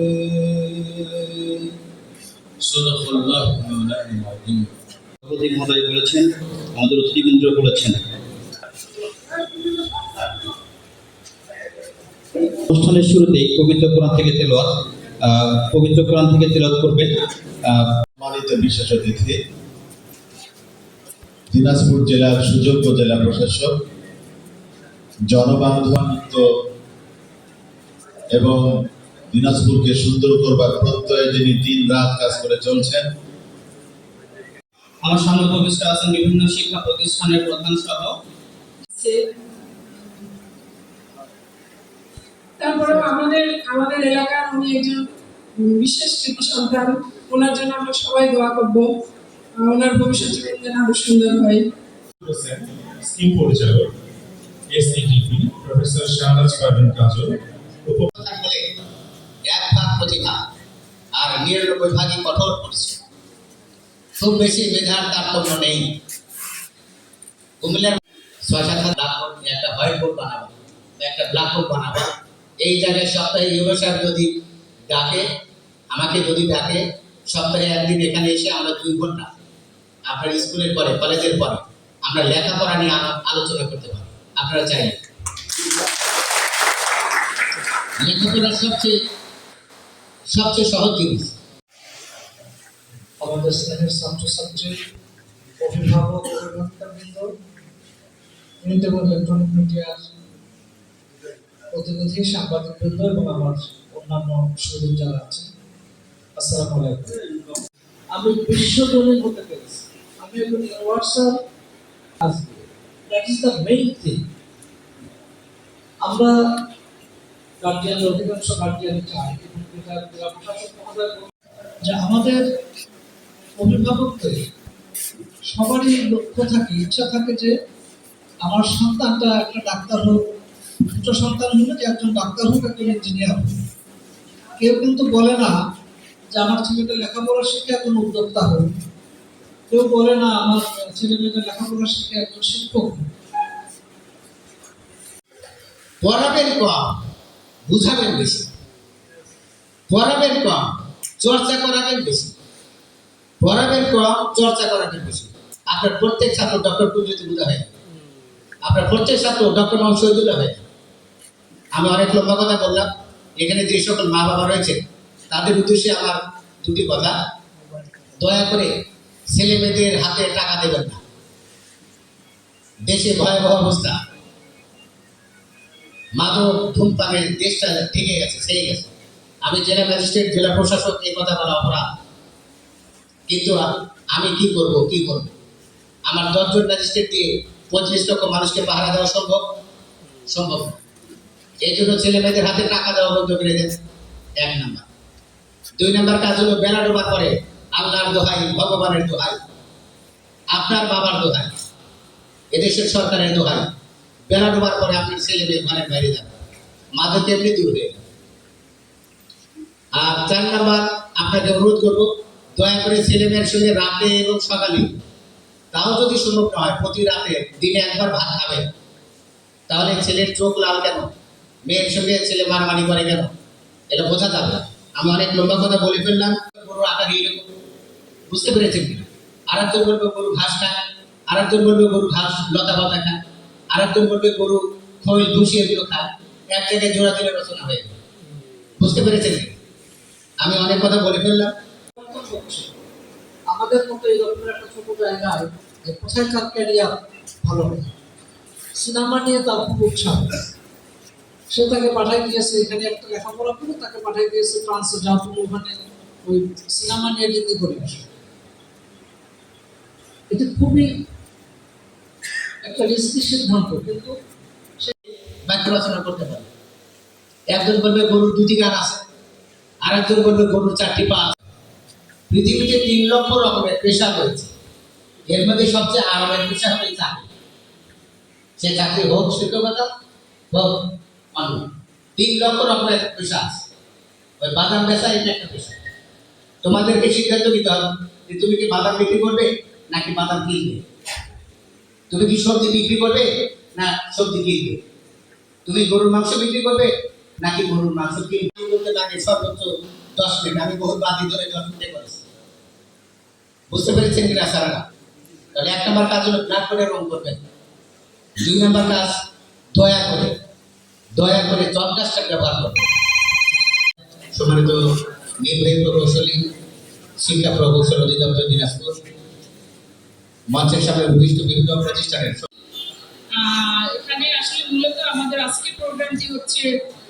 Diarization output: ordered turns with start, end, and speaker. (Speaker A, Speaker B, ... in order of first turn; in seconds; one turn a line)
Speaker A: 2.6-4.7
Speaker A: 5.2-8.0
Speaker A: 12.7-17.9
Speaker B: 18.2-19.4
Speaker B: 21.5-23.8
Speaker B: 25.3-26.5
Speaker B: 28.3-28.7
Speaker B: 29.3-33.1
Speaker A: 35.0-38.1
Speaker C: 38.9-39.2
Speaker C: 42.6-45.0
Speaker C: 45.6-48.9
Speaker C: 49.6-51.6
Speaker D: 52.2-53.9
Speaker D: 54.7-58.1
Speaker E: 58.2-58.6
Speaker E: 59.5-60.4
Speaker E: 61.1-63.0
Speaker E: 64.2-65.9
Speaker E: 67.6-74.3
Speaker E: 74.9-75.2
Speaker E: 75.9-79.3
Speaker E: 80.1-85.0
Speaker E: 88.0-88.9
Speaker E: 90.3-91.3
Speaker F: 93.2-94.7
Speaker F: 95.6-97.3
Speaker F: 98.6-100.1
Speaker F: 101.7-105.5
Speaker F: 106.3-107.2
Speaker F: 108.1-111.4
Speaker F: 112.2-114.2
Speaker F: 116.0-116.3
Speaker F: 117.6-121.3
Speaker F: 121.8-122.4
Speaker F: 123.5-124.4
Speaker F: 125.4-127.5
Speaker F: 128.4-130.2
Speaker F: 130.9-133.6
Speaker F: 134.6-135.5
Speaker F: 136.3-138.7
Speaker F: 139.7-143.1
Speaker E: 146.0-147.0
Speaker E: 147.7-148.5
Speaker E: 149.9-152.3
Speaker E: 153.4-157.7
Speaker E: 158.6-160.6
Speaker E: 161.7-167.2
Speaker E: 168.2-168.7
Speaker E: 169.3-171.0
Speaker E: 172.8-173.9
Speaker E: 176.2-178.9
Speaker E: 179.4-181.8
Speaker E: 183.3-185.3
Speaker E: 186.1-189.4
Speaker E: 190.3-190.8
Speaker E: 191.6-193.8
Speaker E: 194.4-194.8
Speaker E: 195.8-199.4
Speaker E: 200.5-201.6
Speaker E: 202.5-203.7
Speaker E: 204.3-206.3
Speaker E: 206.9-208.0
Speaker E: 209.9-214.9
Speaker E: 215.7-218.7
Speaker E: 219.7-221.1
Speaker E: 221.7-223.3
Speaker E: 223.9-227.5
Speaker E: 228.3-230.7
Speaker E: 231.3-233.2
Speaker E: 233.7-238.0
Speaker E: 238.8-239.5
Speaker E: 240.4-241.5
Speaker F: 242.0-242.7
Speaker F: 243.5-247.9
Speaker F: 248.8-250.4
Speaker F: 251.5-258.1
Speaker F: 260.3-260.9
Speaker F: 262.6-264.2
Speaker E: 265.4-266.5
Speaker E: 267.5-269.0
Speaker E: 269.8-271.4
Speaker E: 272.3-274.5
Speaker E: 275.3-277.3
Speaker E: 278.6-279.9
Speaker E: 280.5-280.8
Speaker E: 281.3-283.6
Speaker E: 284.4-285.8
Speaker E: 286.6-290.8
Speaker E: 292.1-294.8
Speaker E: 295.6-302.2
Speaker E: 303.7-304.8
Speaker E: 305.5-307.4
Speaker E: 308.4-309.1
Speaker E: 309.7-310.3
Speaker E: 311.1-312.9
Speaker E: 314.3-314.8
Speaker E: 315.4-316.5
Speaker E: 317.2-319.0
Speaker E: 320.5-322.4
Speaker G: 323.4-326.6
Speaker C: 325.4-326.6